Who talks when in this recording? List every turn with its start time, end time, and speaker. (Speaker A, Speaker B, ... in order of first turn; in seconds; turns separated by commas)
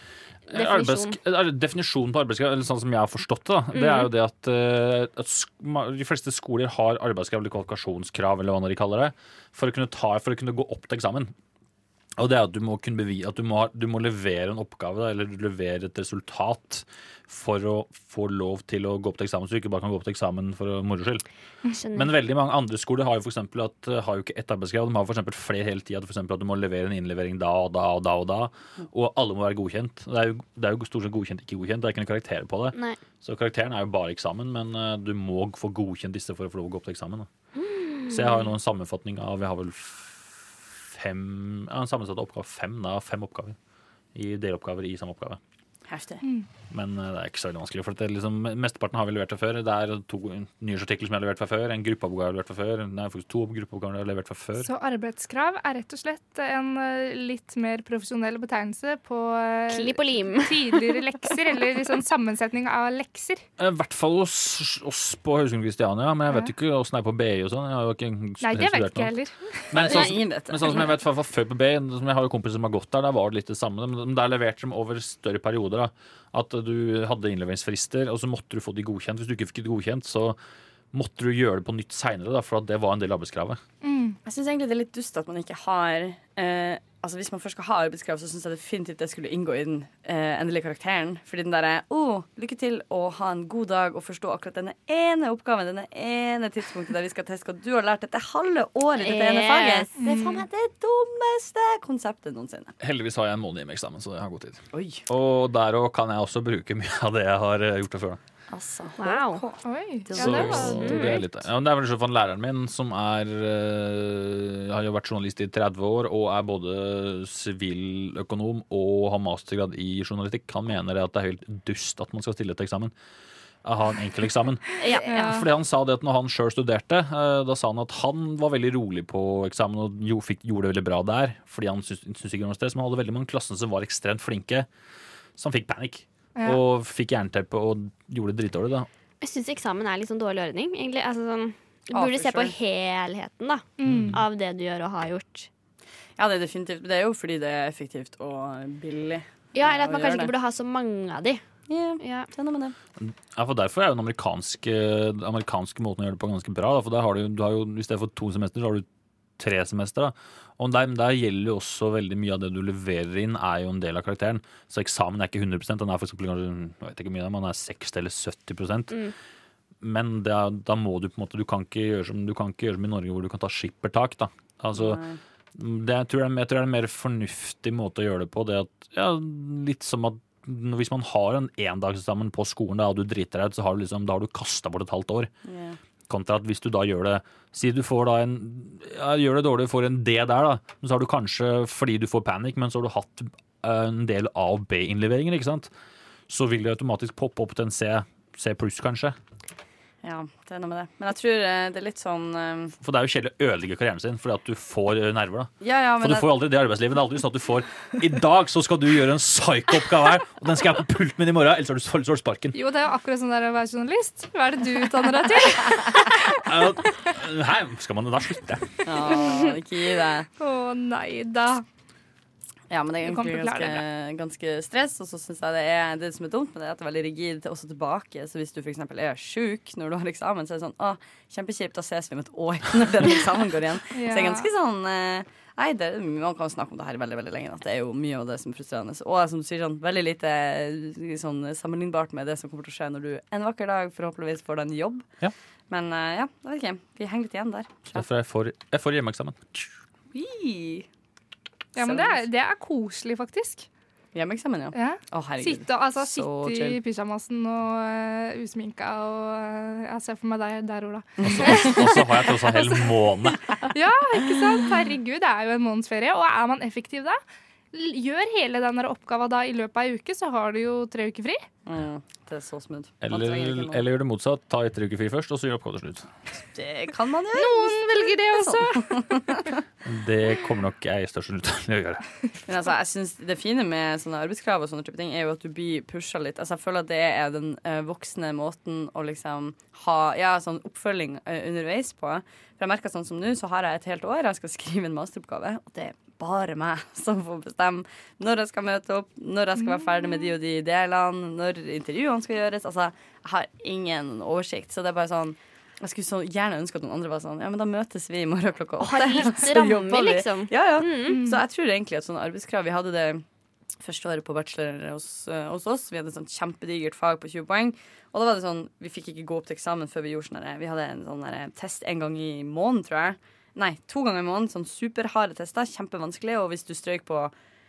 Speaker A: 0.5-1.2, Speaker B: 0.5-11.3, Speaker A: 3.7-4.1, Speaker B: 12.2-21.2, Speaker A: 21.7-22.1, Speaker B: 21.9-37.3, Speaker A: 32.7-33.0, Speaker A: 37.5-38.5, Speaker B: 38.1-43.5, Speaker B: 44.1-45.4, Speaker C: 45.9-46.2, Speaker B: 46.7-54.7, Speaker D: 54.6-63.4, Speaker A: 59.7-61.0, Speaker B: 63.6-69.1, Speaker D: 68.4-69.7, Speaker B: 69.7-80.4, Speaker C: 69.7-70.9, Speaker B: 80.9-83.6, Speaker D: 83.8-84.2, Speaker C: 84.2-102.7, Speaker A: 99.0-99.9, Speaker D: 100.0-100.4, Speaker B: 102.8-108.2, Speaker C: 104.7-105.0, Speaker C: 108.5-111.2, Speaker A: 109.0-109.4, Speaker D: 109.6-111.0, Speaker B: 110.1-122.9, Speaker A: 110.3-111.2, Speaker B: 123.6-134.7, Speaker A: 124.8-125.3, Speaker D: 125.0-125.4, Speaker B: 135.4-138.9, Speaker A: 139.2-145.5, Speaker C: 141.9-142.6, Speaker D: 143.8-144.2, Speaker B: 143.8-144.2, Speaker C: 146.2-150.3, Speaker A: 149.5-151.4, Speaker C: 151.7-152.7, Speaker A: 152.0-152.3, Speaker B: 153.0-158.8, Speaker B: 159.4-169.0, Speaker B: 169.8-175.0, Speaker C: 174.7-175.2, Speaker B: 175.5-185.3, Speaker C: 185.4-185.8, Speaker B: 186.1-195.7, Speaker B: 196.3-199.2, Speaker C: 200.0-202.7, Speaker B: 202.8-212.5, Speaker C: 205.6-206.5, Speaker D: 212.5-216.4, Speaker B: 216.3-218.8, Speaker C: 218.8-220.3, Speaker D: 220.4-221.6, Speaker C: 222.7-245.1, Speaker D: 223.0-223.8, Speaker D: 233.9-234.5, Speaker C: 245.7-248.1, Speaker B: 247.9-249.7, Speaker C: 250.1-250.9, Speaker D: 251.7-253.7, Speaker C: 251.8-252.2, Speaker C: 254.1-256.8, Speaker D: 254.7-262.0, Speaker C: 261.2-262.0, Speaker B: 261.2-263.6, Speaker D: 262.5-262.8, Speaker D: 263.7-267.2, Speaker D: 267.7-271.4, Speaker C: 271.6-273.8, Speaker B: 273.0-276.1, Speaker C: 276.5-279.6, Speaker D: 277.3-279.2, Speaker B: 279.8-282.0, Speaker C: 282.5-313.2, Speaker D: 299.6-299.9, Speaker A: 308.8-311.2, Speaker D: 311.1-311.4, Speaker C: 313.8-327.3